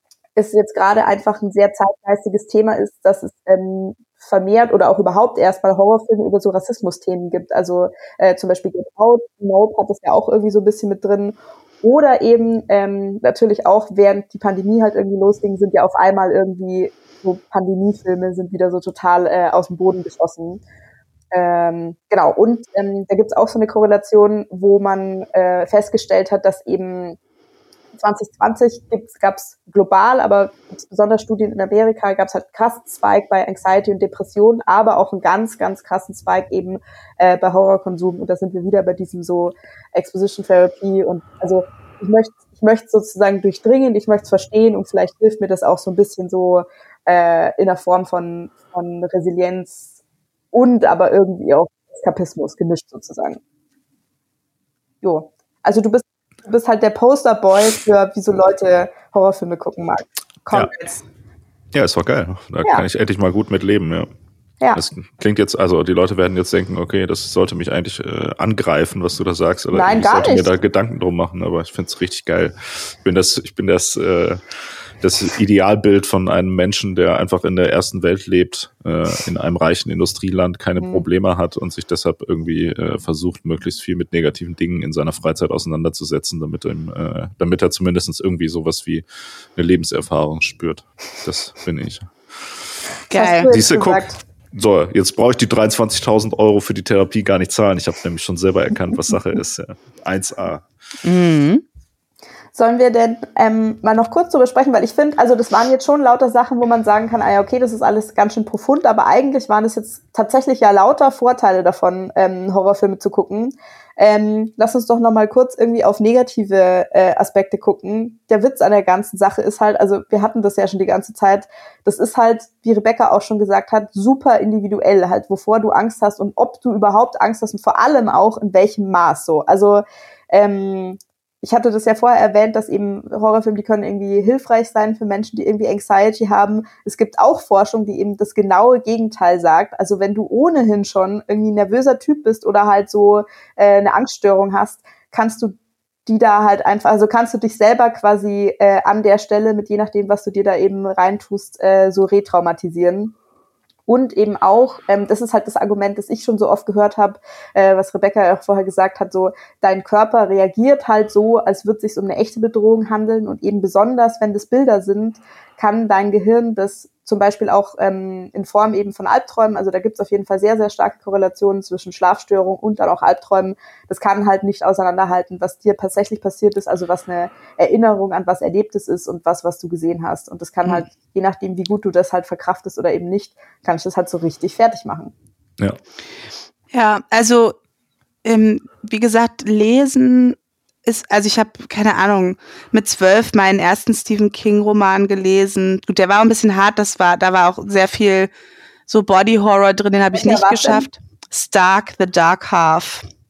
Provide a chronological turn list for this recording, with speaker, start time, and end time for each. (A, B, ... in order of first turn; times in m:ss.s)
0:00.4-0:20.6 A
0:21.3-0:27.2 A
0:28.0-0:49.9 A
0:50.5-0:53.4 A
0:55.0-1:01.0 A
1:01.7-1:04.1 B
1:04.7-1:14.4 B
1:09.7-1:10.5 A
1:15.0-1:29.0 B
1:20.8-1:21.0 A
1:29.6-1:32.1 B
1:33.1-1:33.7 C
1:33.1-1:34.2 A
1:33.5-1:40.6 B
1:41.0-1:41.6 C
1:42.5-2:33.1 A
2:33.9-3:05.1 A
3:06.7-3:07.6 C
3:08.2-3:18.3 C
3:18.9-3:23.0 C
3:20.1-3:20.9 A